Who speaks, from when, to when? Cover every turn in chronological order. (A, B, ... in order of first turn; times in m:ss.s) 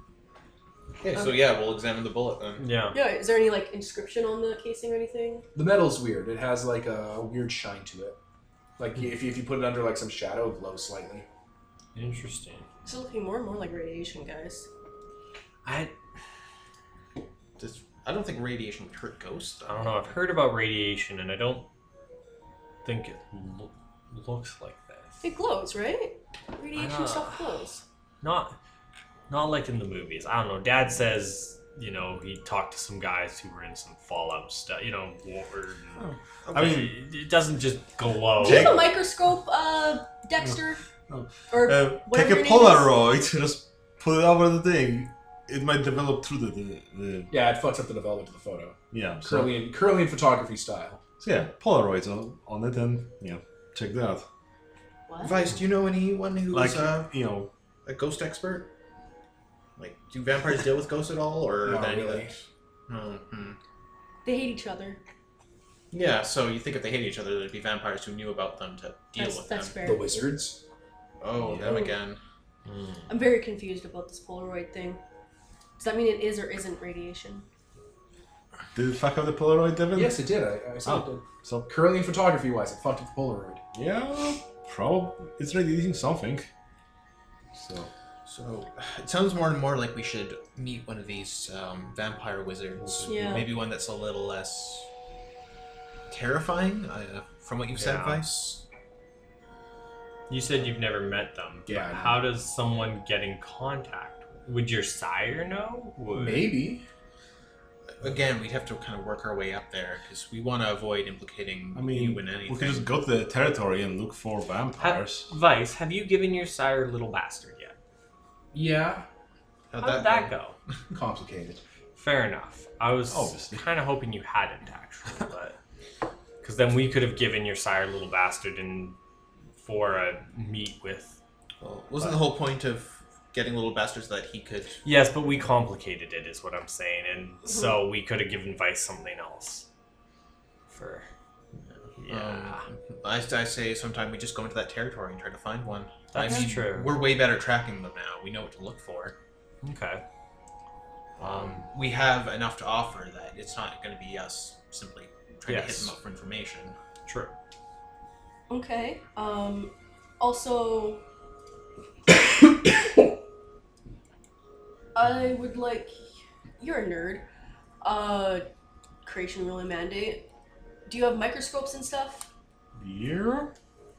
0:01.0-0:02.6 A
0:02.6-0:03.0 B
0:02.9-0:05.5 C
0:05.5-0:08.2 D
0:08.8-0:11.2 D
0:11.9-0:12.7 B
0:12.8-0:14.7 C
0:15.6-0:15.9 B
0:17.6-0:20.1 A
0:19.6-0:21.6 B
0:22.8-0:25.2 B
0:25.2-0:27.8 C
0:26.7-0:27.4 B
0:28.2-0:28.6 B
0:29.3-0:38.8 B
0:36.0-0:36.9 A
0:36.5-0:36.9 E
0:38.4-0:40.8 C
0:38.4-0:38.9 E
0:40.4-0:47.3 E
0:41.5-0:42.9 C
0:47.3-0:51.0 D
0:48.9-0:49.7 E
0:51.2-0:54.2 E
0:55.1-0:55.4 C
0:55.2-0:57.1 A
0:56.5-0:57.5 E
0:57.8-0:58.7 A
0:59.8-1:03.6 A
1:01.6-1:02.3 D
1:04.2-1:05.0 C
1:05.9-1:09.7 A
1:09.2-1:10.3 C
1:09.8-1:10.6 D
1:11.2-1:12.2 A
1:11.4-1:11.6 E
1:11.6-1:11.9 C
1:12.6-1:13.1 B
1:13.1-1:15.0 C
1:15.8-1:17.4 C
1:18.7-1:20.2 E
1:19.9-1:23.6 D
1:20.9-1:21.7 E
1:23.7-1:26.5 E
1:27.5-1:27.9 E
1:28.2-1:34.9 A
1:32.8-1:33.5 E
1:33.1-1:33.4 C
1:36.1-1:38.6 A
1:37.7-1:38.2 B
1:40.3-1:46.6 B
1:41.7-1:42.2 D
1:46.1-1:46.8 D
1:47.9-1:52.8 A
1:51.7-1:55.3 E
1:54.8-1:57.7 B
1:58.5-1:59.0 D
1:59.7-2:00.3 A
1:59.8-2:00.6 B
2:00.9-2:01.6 D
2:02.0-2:05.6 B
2:03.1-2:03.6 E
2:06.4-2:09.0 B
2:09.6-2:11.2 B
2:11.6-2:14.8 A
2:14.8-2:19.6 B
2:17.5-2:17.7 C
2:20.7-2:21.1 B
2:22.0-2:22.7 B
2:22.1-2:29.1 A
2:26.1-2:27.0 B
2:26.2-2:26.5 C
2:29.6-2:30.0 B
2:31.2-2:36.8 A
2:35.4-2:35.9 B
2:37.0-2:37.3 B
2:38.5-2:41.0 C
2:44.9-2:46.0 C
2:46.6-2:47.2 C
2:47.8-2:48.4 C
2:49.0-2:50.3 C
2:50.9-2:52.3 C
2:52.8-2:53.5 E